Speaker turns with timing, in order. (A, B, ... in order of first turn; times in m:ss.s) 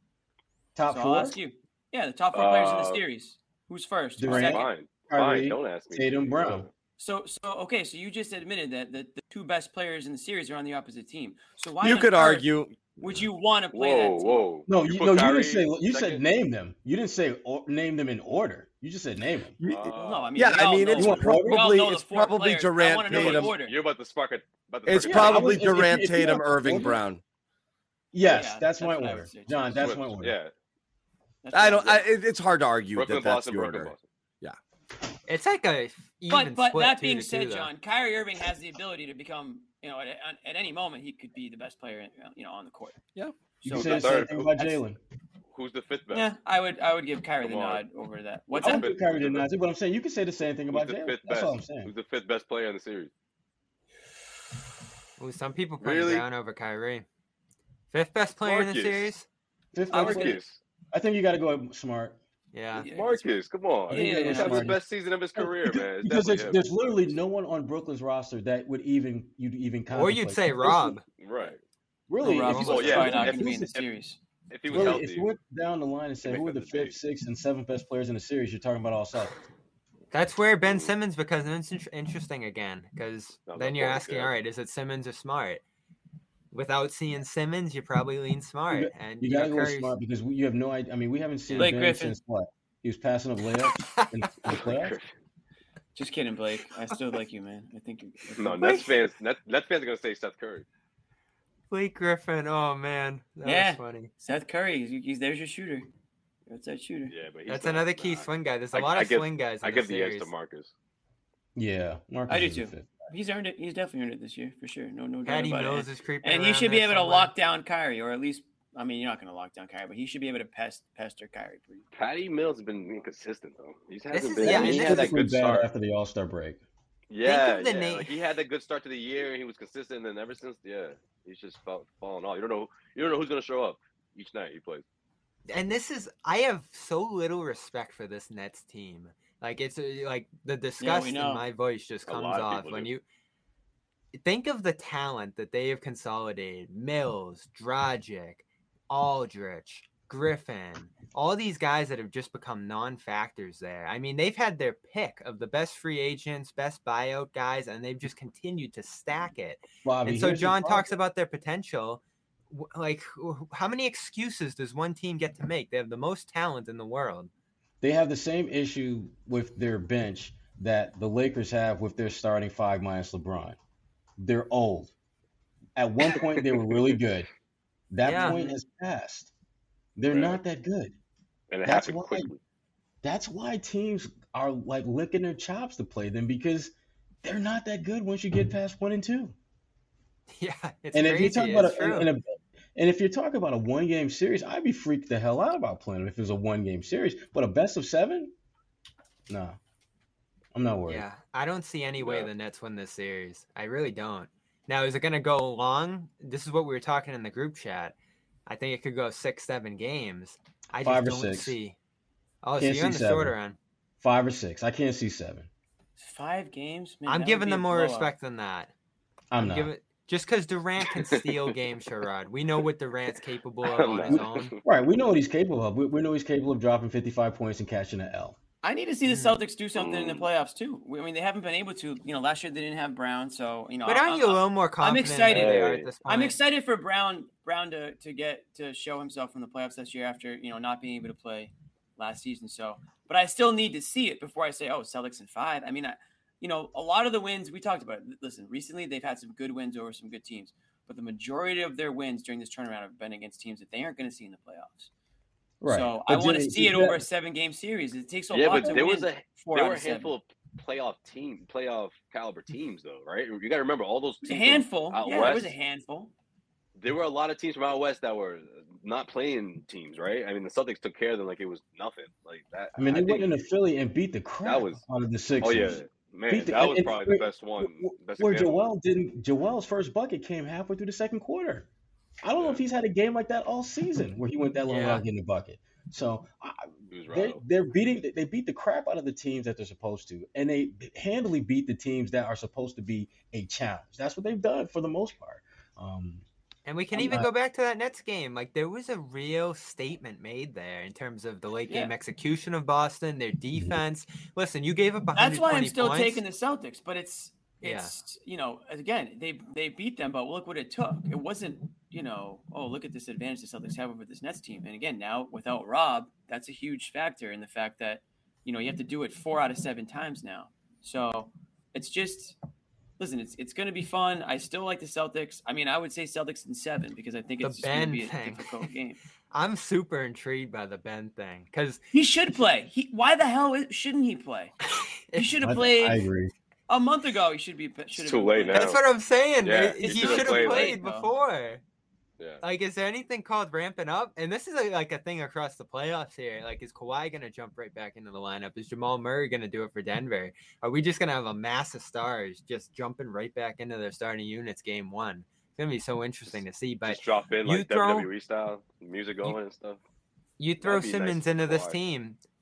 0:00.8-0:01.4 A
0:00.9-0:04.7 B
0:02.3-0:03.0 C
0:04.2-0:06.7 A
0:04.2-0:06.7 C
0:07.0-0:12.5 B
0:11.8-0:13.3 D
0:13.0-0:14.6 B
0:13.7-0:16.2 C
0:14.7-0:19.6 A
0:19.6-0:23.5 D
0:19.7-0:20.9 C
0:20.0-0:23.8 B
0:20.9-0:21.7 A
0:23.1-0:25.6 C
0:24.9-0:27.2 D
0:25.0-0:27.0 A
0:28.1-0:30.3 A
0:28.2-0:29.8 B
0:29.8-0:30.5 C
0:31.4-0:32.0 B
0:31.5-0:34.6 D
0:33.0-0:34.0 C
0:35.3-0:37.7 E
0:36.3-0:43.0 B
0:43.6-0:44.8 B
0:43.7-0:44.5 C
0:43.7-0:45.0 A
0:45.5-0:46.3 C
0:46.1-0:48.9 B
0:47.4-0:47.8 C
0:48.5-0:49.5 C
0:48.6-0:51.9 A
0:50.7-0:53.1 C
0:55.2-0:57.1 E
0:55.8-0:56.2 C
0:57.9-0:59.3 E
0:58.4-0:59.1 C
0:59.7-1:00.4 A
0:59.9-1:00.6 C
0:59.9-1:00.3 E
1:00.9-1:02.2 A
1:02.5-1:02.9 E
1:02.7-1:03.2 B
1:02.9-1:06.6 C
1:03.9-1:04.8 B
1:03.9-1:04.8 A
1:05.4-1:11.0 A
1:09.9-1:11.0 E
1:11.2-1:11.6 C
1:12.1-1:13.8 A
1:12.2-1:14.2 B
1:12.3-1:13.3 E
1:12.5-1:13.9 C
1:14.5-1:15.3 C
1:14.7-1:19.4 A
1:16.2-1:17.0 C
1:20.1-1:25.6 E
1:20.7-1:20.9 C
1:23.5-1:24.3 C
1:26.5-1:30.0 E
1:28.7-1:35.0 A
1:31.5-1:31.8 E
1:31.6-1:32.2 B
1:33.7-1:34.1 E
1:34.5-1:35.1 C
1:36.0-1:38.9 B
1:38.4-1:40.7 C
1:38.6-1:38.9 E
1:41.7-1:44.1 E
1:43.4-1:45.9 B
1:46.5-1:47.1 B
1:47.1-1:50.7 C
1:47.5-1:50.3 E
1:51.6-1:53.1 A
1:52.3-2:01.9 B
1:55.2-1:57.3 E
2:01.9-2:05.7 C
2:04.1-2:05.1 E
2:04.4-2:06.6 A
2:07.1-2:14.8 C
2:07.2-2:08.2 E
2:15.5-2:23.0 E
2:20.8-2:21.4 B
2:22.1-2:22.9 C
2:24.1-2:47.3 E
2:39.8-2:40.9 A
2:47.8-2:53.6 A
2:54.2-2:54.9 A
2:55.8-2:57.3 A
2:56.1-2:56.9 C
2:57.9-2:59.3 A
2:58.0-2:58.4 E
2:58.1-2:58.6 B
3:00.0-3:00.9 A
3:00.1-3:00.4 C
3:01.5-3:02.4 C
3:01.7-3:02.3 A
3:03.0-3:06.7 A
3:07.2-3:09.4 A
3:10.4-3:12.1 E
3:10.9-3:12.2 A
3:12.8-3:18.3 A
3:19.3-3:19.6 A
3:20.5-3:21.0 A
3:20.9-3:27.9 E
3:22.0-3:22.3 C
3:28.5-3:31.8 E
3:30.8-3:31.6 A
3:32.4-3:33.6 E
3:32.6-3:33.3 A
3:34.0-3:35.5 A
3:36.0-3:38.1 B
3:37.1-3:38.7 E
3:39.3-3:39.7 A
3:39.4-3:44.6 E
3:41.0-3:41.3 C
3:43.6-3:44.6 C
3:44.1-3:48.4 A
3:48.6-4:14.9 B
3:49.0-3:49.4 E
3:49.8-3:50.3 C
3:53.8-3:56.4 E
3:55.3-3:55.9 C
4:15.6-4:17.0 A
4:15.6-4:20.1 B
4:18.3-4:25.6 C
4:24.2-4:26.1 B
4:26.8-4:33.4 C
4:32.8-4:41.7 A
4:34.4-4:34.8 C
4:35.4-4:38.6 C
4:42.2-4:56.2 A
4:42.4-4:42.6 C
4:44.7-4:45.0 E
4:46.9-4:47.4 C
4:56.7-5:06.2 E
4:56.9-4:57.3 A
5:01.7-5:01.9 B
5:05.2-5:22.4 B
5:07.6-5:07.9 E
5:23.0-5:29.0 B
5:27.4-5:28.7 E
5:29.3-5:31.8 E
5:31.9-5:34.5 B
5:34.7-5:35.4 E
5:35.2-5:36.0 B
5:35.4-5:36.3 A
5:36.7-5:38.8 B
5:38.0-5:38.8 C
5:38.5-5:41.6 E
5:39.4-5:40.8 C
5:39.8-5:41.1 B
5:42.4-5:58.1 E
5:56.8-5:59.8 C
6:00.4-6:02.2 E
6:00.6-6:01.8 C